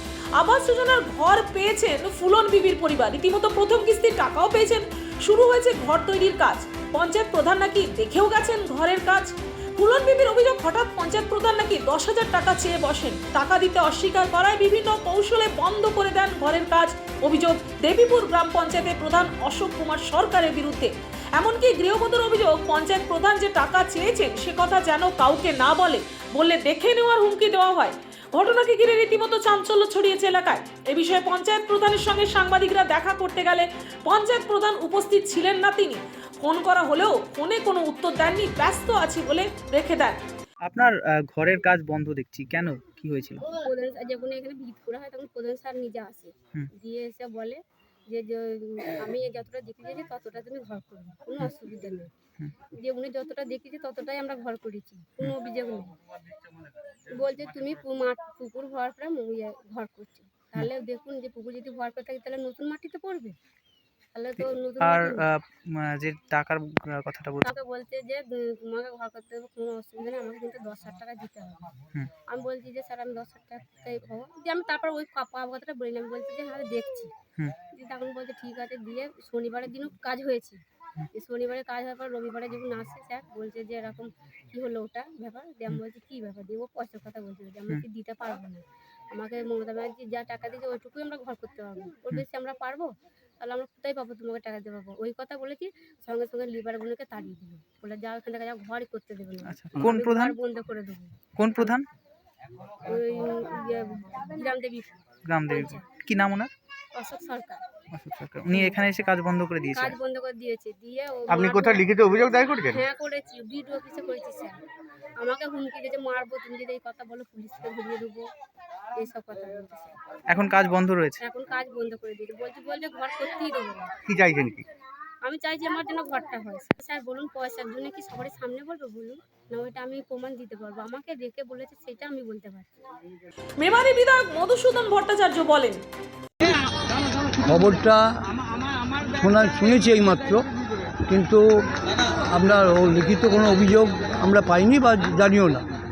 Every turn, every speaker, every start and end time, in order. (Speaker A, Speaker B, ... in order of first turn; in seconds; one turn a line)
Speaker A: 0.3-40.2
Speaker B: 40.6-43.5
Speaker C: 43.5-52.1
Speaker C: 52.7-55.9
Speaker C: 57.1-63.4
Speaker C: 64.1-65.2
Speaker B: 64.4-67.5
Speaker C: 67.4-71.6
Speaker C: 72.3-77.1
Speaker C: 77.7-80.6
Speaker C: 81.1-92.9
Speaker C: 93.4-101.7
Speaker B: 99.5-100.3
Speaker B: 101.3-101.8
Speaker C: 102.8-105.8
Speaker B: 105.3-106.5
Speaker C: 106.9-107.6
Speaker B: 107.9-110.0
Speaker C: 108.5-108.8
Speaker C: 109.7-112.0
Speaker D: 111.3-112.8
Speaker C: 112.5-114.5
Speaker C: 115.2-118.2
Speaker C: 119.0-119.9
Speaker B: 120.3-121.2
Speaker C: 121.2-123.9
Speaker D: 124.1-124.6
Speaker C: 125.2-132.8
Speaker A: 133.6-135.8
Speaker E: 137.4-138.1
Speaker E: 139.1-140.4
Speaker E: 141.1-145.6